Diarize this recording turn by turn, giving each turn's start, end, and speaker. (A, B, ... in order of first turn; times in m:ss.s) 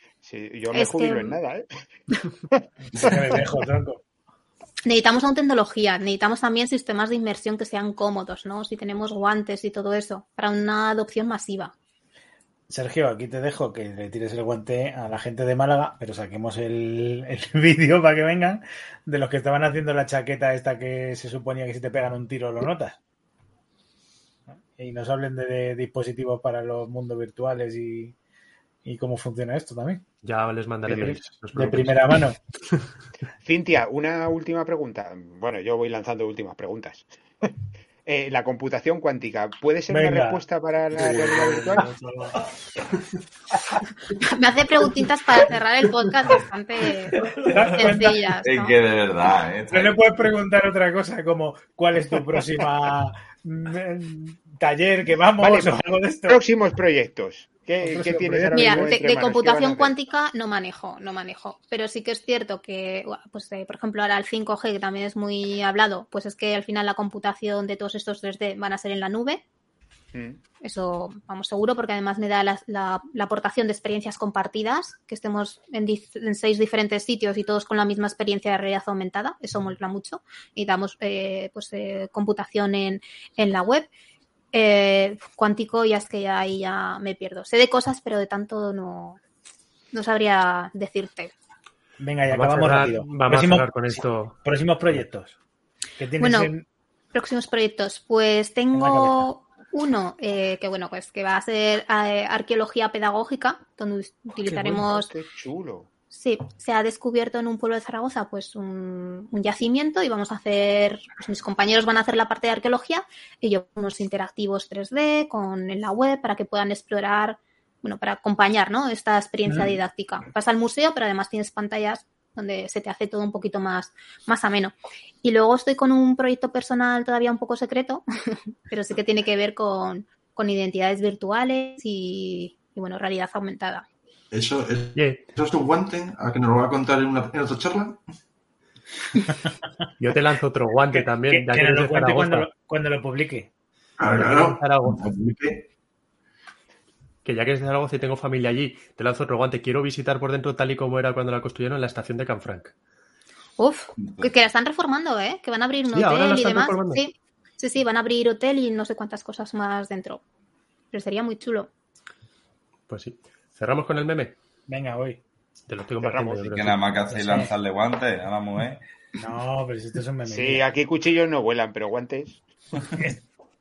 0:00.2-0:01.7 A
0:00.7-0:01.4 B
0:02.5-0:03.4 A
0:03.0-0:04.0 C
0:04.9-0:11.7 B
0:12.7-0:23.0 C
0:24.5-0:28.2 C
0:28.8-0:30.0 C
0:30.2-0:32.2 D
0:30.9-0:32.4 C
0:33.4-0:37.5 A
0:38.1-0:41.9 A
0:39.9-0:40.4 C
0:41.0-0:42.3 C
0:44.1-0:48.8 B
0:47.3-0:47.6 E
0:47.4-0:48.2 C
0:48.4-0:50.0 E
0:49.7-0:56.4 C
0:55.4-0:55.8 A
0:56.3-0:59.9 A
0:57.8-0:59.0 C
0:58.5-1:09.4 B
1:10.1-1:10.4 A
1:10.6-1:23.9 B
1:24.5-1:29.2 B
1:29.9-1:31.3 B
1:32.0-1:35.4 C
1:32.3-1:34.4 D
1:36.0-1:36.6 C
1:36.2-1:36.5 B
1:37.1-1:45.1 B
1:38.7-1:39.3 C
1:44.5-1:45.9 A
1:46.1-2:13.9 B
1:59.5-1:59.8 C
2:14.3-2:18.0 F
2:15.0-2:15.2 D
2:20.0-2:22.5 D
2:20.9-2:23.5 C
2:24.0-2:25.7 F
2:24.0-2:25.1 D
2:27.2-2:32.7 D
2:33.6-2:40.2 B
2:34.0-2:34.3 E
2:35.9-2:37.0 D
2:40.9-2:41.7 B
2:42.9-2:44.3 D
2:44.7-2:45.2 C
2:45.7-2:46.8 D
2:46.0-2:46.4 A
2:46.4-2:48.8 E
2:47.2-2:47.5 C
2:49.2-2:50.6 C
2:50.3-2:52.4 A
2:53.0-2:53.2 C